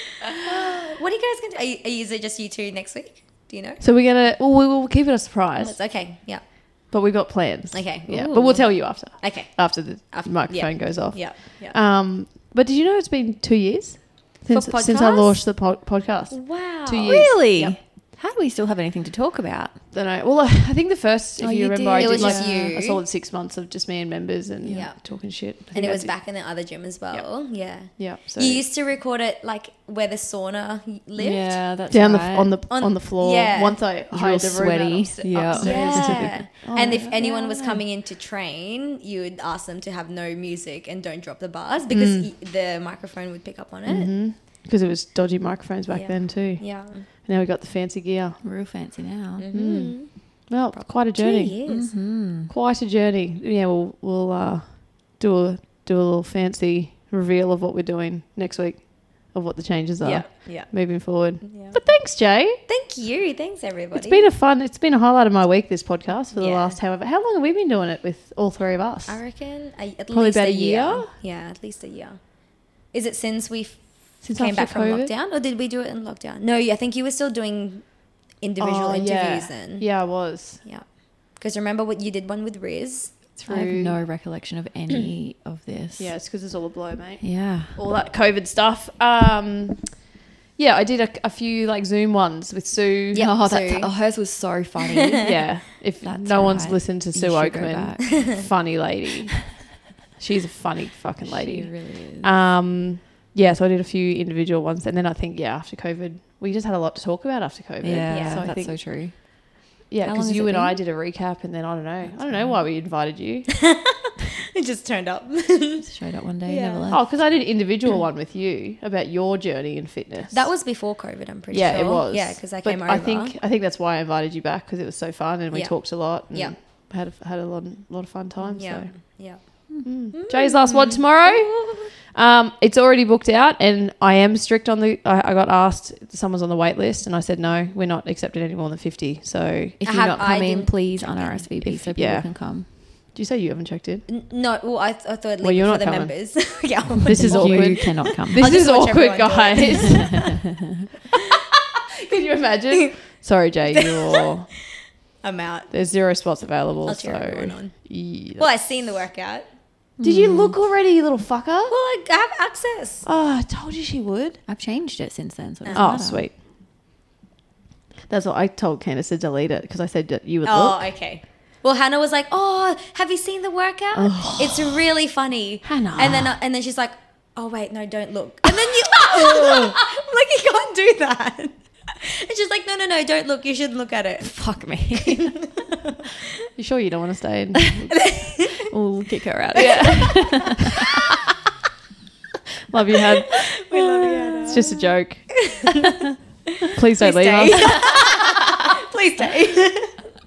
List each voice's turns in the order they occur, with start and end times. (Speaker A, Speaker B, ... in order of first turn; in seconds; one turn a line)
Speaker A: 0.4-3.8
Speaker B: 3.8-5.8
Speaker A: 5.6-6.9
Speaker B: 6.9-17.8
Speaker A: 7.7-11.8
Speaker A: 14.5-15.4
Speaker A: 16.3-17.4
Speaker C: 17.0-19.8
Speaker B: 19.9-26.3
Speaker C: 21.4-22.7
Speaker A: 22.0-23.0
Speaker A: 24.6-31.6
Speaker B: 27.1-28.6
Speaker C: 31.2-32.6
Speaker B: 31.9-37.3
Speaker A: 32.7-33.9
Speaker C: 34.1-36.5
Speaker A: 35.4-44.1
Speaker C: 37.2-37.8
Speaker B: 41.9-42.3
Speaker B: 43.9-48.4
Speaker A: 45.9-47.1
Speaker C: 48.4-49.5
Speaker A: 49.4-51.9
Speaker B: 49.5-51.6
Speaker C: 51.7-52.5
Speaker B: 52.5-62.6
Speaker A: 60.0-61.8
Speaker A: 62.7-64.3
Speaker B: 63.9-69.2
Speaker A: 66.3-66.8
Speaker A: 69.1-83.2
Speaker B: 70.1-71.1
Speaker B: 74.2-75.1
Speaker B: 78.6-80.6
Speaker B: 83.3-84.0
Speaker C: 83.5-86.2
Speaker B: 86.0-93.3
Speaker C: 87.2-87.8
Speaker C: 93.1-98.5
Speaker A: 93.2-93.9
Speaker B: 95.2-109.2
Speaker C: 101.3-102.3
Speaker C: 107.8-110.8
Speaker A: 108.1-108.5
Speaker B: 109.9-113.5
Speaker C: 112.0-112.6
Speaker A: 114.5-115.9
Speaker C: 115.8-117.0
Speaker A: 116.4-117.1
Speaker B: 116.9-120.5
Speaker A: 120.3-123.3
Speaker B: 121.5-128.9
Speaker A: 125.5-126.5
Speaker A: 128.4-131.9
Speaker B: 129.8-139.8
Speaker C: 139.8-142.7
Speaker A: 139.8-141.4
Speaker B: 141.6-144.1
Speaker A: 144.1-150.1
Speaker B: 145.4-150.3
Speaker C: 147.1-148.5
Speaker C: 149.8-150.4
Speaker B: 152.0-154.5
Speaker A: 153.8-154.0
Speaker A: 155.2-155.7
Speaker B: 155.7-158.6
Speaker A: 156.9-159.5
Speaker C: 160.0-160.6
Speaker B: 160.0-161.8
Speaker A: 161.7-163.1
Speaker B: 163.0-164.4
Speaker C: 164.5-166.2
Speaker A: 165.6-165.9
Speaker B: 165.7-166.4
Speaker B: 168.1-170.9
Speaker A: 170.4-185.6
Speaker B: 173.9-174.8
Speaker B: 175.6-176.3
Speaker C: 184.2-185.5
Speaker B: 186.6-188.1
Speaker A: 187.9-188.6
Speaker C: 188.7-191.1
Speaker B: 189.5-190.5
Speaker A: 189.6-190.3
Speaker B: 192.7-193.5
Speaker A: 193.6-194.8
Speaker B: 194.4-195.7
Speaker A: 195.3-195.7
Speaker A: 196.7-200.1
Speaker B: 196.7-198.1